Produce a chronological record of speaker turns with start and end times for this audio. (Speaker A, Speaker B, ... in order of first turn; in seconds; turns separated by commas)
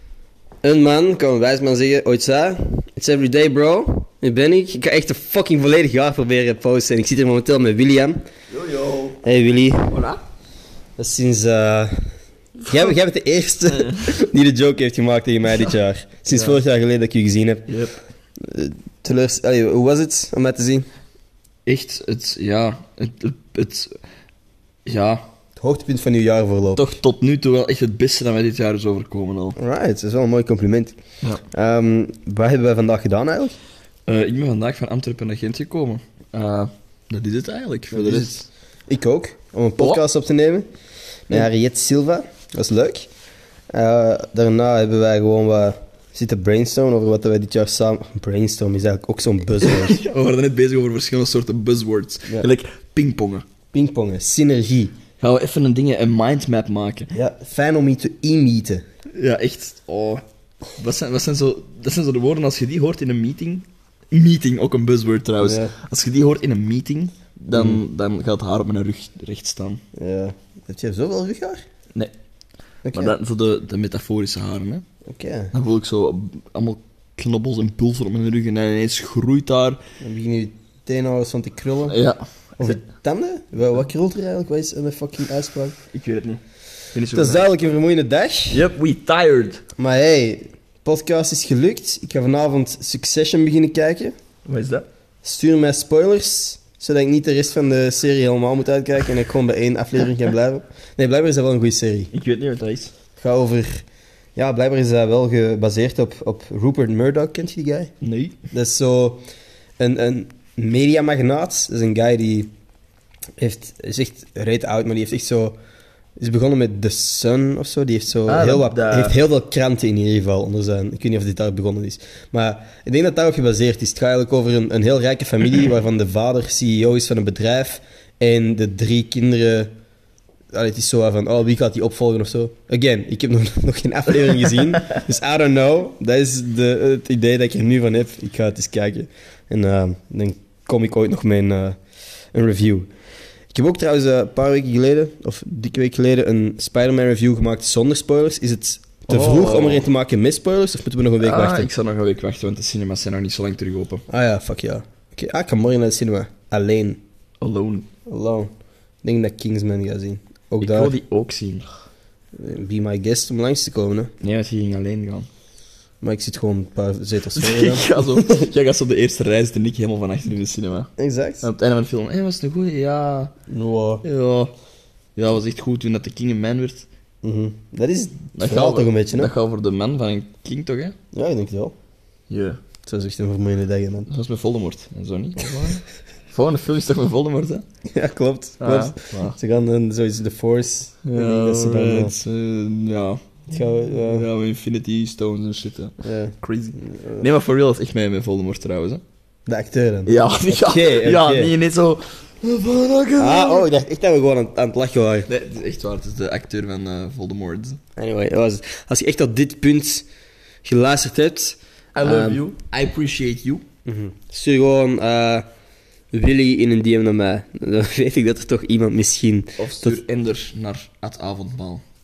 Speaker A: 0.6-8.2, Speaker B: 8.5-9.2, Speaker A: 9.2-9.9, Speaker B: 9.9-10.2, Speaker A: 11.0-12.1, Speaker A: 12.7-17.7, Speaker B: 16.3-16.6, Speaker B: 17.7-17.9, Speaker A: 18.4-20.9, Speaker B: 21.6-23.9, Speaker B: 24.8-25.2, Speaker A: 25.6-26.9, Speaker B: 26.7-29.6, Speaker A: 29.6-31.0, Speaker A: 31.5-33.5, Speaker B: 34.1-38.5, Speaker A: 37.9-40.6, Speaker A: 41.3-43.0, Speaker A: 43.7-50.0, Speaker B: 49.6-53.4, Speaker A: 53.7-54.9, Speaker B: 55.2-57.1, Speaker A: 57.1-58.8, Speaker B: 59.1-60.2, Speaker B: 60.8-69.8, Speaker A: 65.4-65.8, Speaker A: 67.5-67.8, Speaker A: 70.0-71.6, Speaker A: 72.8-73.1, Speaker B: 72.9-74.8, Speaker A: 75.1-75.5, Speaker B: 75.5-79.8, Speaker A: 80.0-82.0, Speaker B: 81.9-82.8, Speaker A: 82.6-85.8, Speaker B: 85.9-86.4, Speaker B: 86.9-87.5, Speaker A: 87.1-88.6, Speaker B: 88.5-89.6, Speaker A: 89.8-94.1, Speaker B: 94.5-94.8, Speaker A: 95.2-102.1, Speaker B: 102.1-102.9, Speaker A: 103.2-103.8, Speaker A: 104.3-107.9, Speaker B: 108.0-108.3, Speaker A: 108.5-109.2, Speaker A: 109.8-112.5, Speaker A: 113.4-115.5, Speaker A: 116.2-129.7, Speaker B: 118.3-119.2, Speaker A: 130.5-141.8, Speaker A: 142.3-142.9, Speaker A: 143.5-151.7, Speaker B: 149.1-149.9, Speaker B: 151.2-154.0, Speaker A: 154.1-157.0, Speaker B: 157.4-157.8, Speaker A: 158.1-158.5, Speaker A: 159.0-160.9, Speaker B: 160.6-161.7, Speaker A: 162.4-164.1, Speaker B: 164.2-165.3, Speaker A: 166.0-168.4, Speaker B: 167.3-170.9, Speaker A: 171.0-171.5, Speaker B: 171.4-173.3, Speaker A: 173.5-174.0, Speaker B: 174.0-174.5, Speaker B: 175.2-176.8, Speaker A: 177.2-179.3, Speaker B: 178.3-180.9, Speaker A: 181.1-181.7, Speaker B: 182.3-182.6, Speaker A: 182.8-184.1, Speaker B: 184.1-187.6, Speaker A: 187.9-192.2, Speaker B: 188.6-189.3, Speaker B: 191.0-193.2, Speaker A: 193.5-194.3, Speaker B: 194.0-199.0, Speaker A: 196.0-197.2, Speaker A: 199.5-201.5, Speaker B: 200.1-203.7, Speaker A: 203.2-205.3, Speaker B: 205.3-207.8, Speaker A: 208.0-210.0, Speaker A: 210.6-212.4, Speaker B: 211.9-213.6, Speaker A: 213.8-215.4, Speaker A: 216.1-220.0, Speaker B: 219.6-221.8